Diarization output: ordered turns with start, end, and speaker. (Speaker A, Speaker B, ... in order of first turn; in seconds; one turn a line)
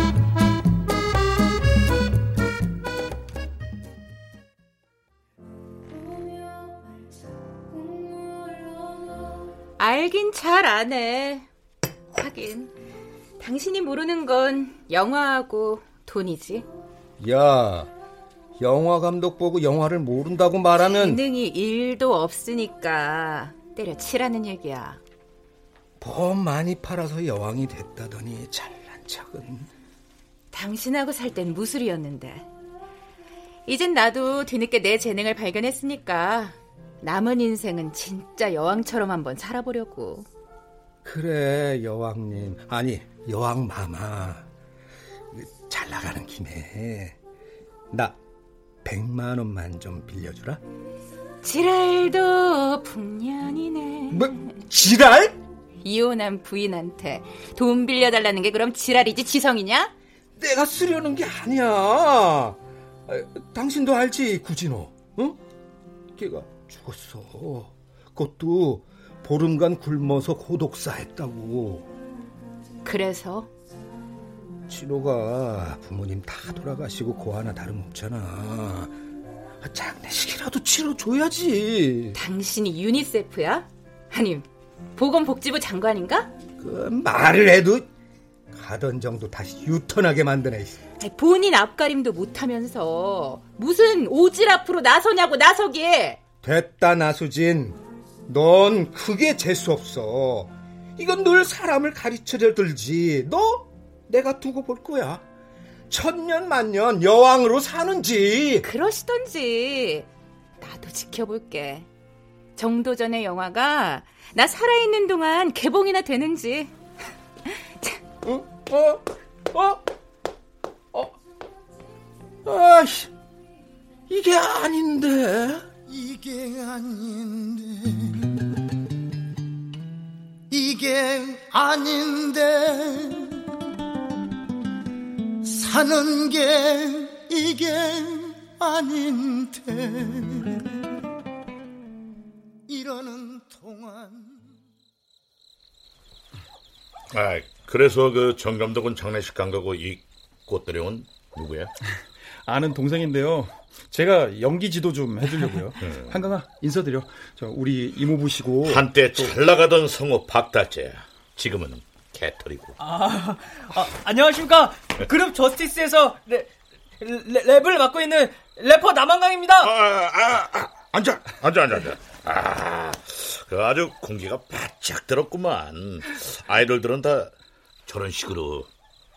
Speaker A: 9.8-11.5
Speaker A: 12.1-12.7
Speaker A: 13.4-16.6
Speaker B: 17.2-17.9
Speaker B: 18.6-21.2
Speaker A: 20.8-25.0
Speaker B: 26.0-29.7
Speaker A: 30.5-32.5
Speaker A: 33.6-40.3
Speaker B: 41.0-44.4
Speaker B: 45.3-47.1
Speaker B: 47.9-48.2
Speaker B: 48.8-50.6
Speaker A: 51.4-54.4
Speaker B: 54.1-55.4
Speaker A: 55.8-59.9
Speaker B: 60.4-65.4
Speaker B: 66.2-71.9
Speaker A: 72.8-73.5
Speaker B: 74.7-78.9
Speaker B: 79.6-82.2
Speaker A: 82.1-86.3
Speaker B: 86.6-87.8
Speaker B: 88.5-90.8
Speaker A: 91.0-96.2
Speaker B: 96.4-105.2
Speaker B: 105.9-108.7
Speaker A: 108.6-110.1
Speaker A: 110.6-111.9
Speaker A: 112.5-116.7
Speaker A: 117.5-118.0
Speaker B: 118.2-119.0
Speaker B: 119.5-119.8
Speaker B: 122.4-123.1
Speaker B: 124.1-125.7
Speaker C: 125.9-128.3
Speaker C: 130.5-133.4
Speaker C: 135.4-140.7
Speaker C: 142.7-144.4
Speaker D: 147.1-151.7
Speaker E: 152.4-158.8
Speaker D: 155.8-156.1
Speaker D: 158.6-162.8
Speaker F: 162.8-169.7
Speaker D: 169.6-177.3
Speaker D: 177.9-178.7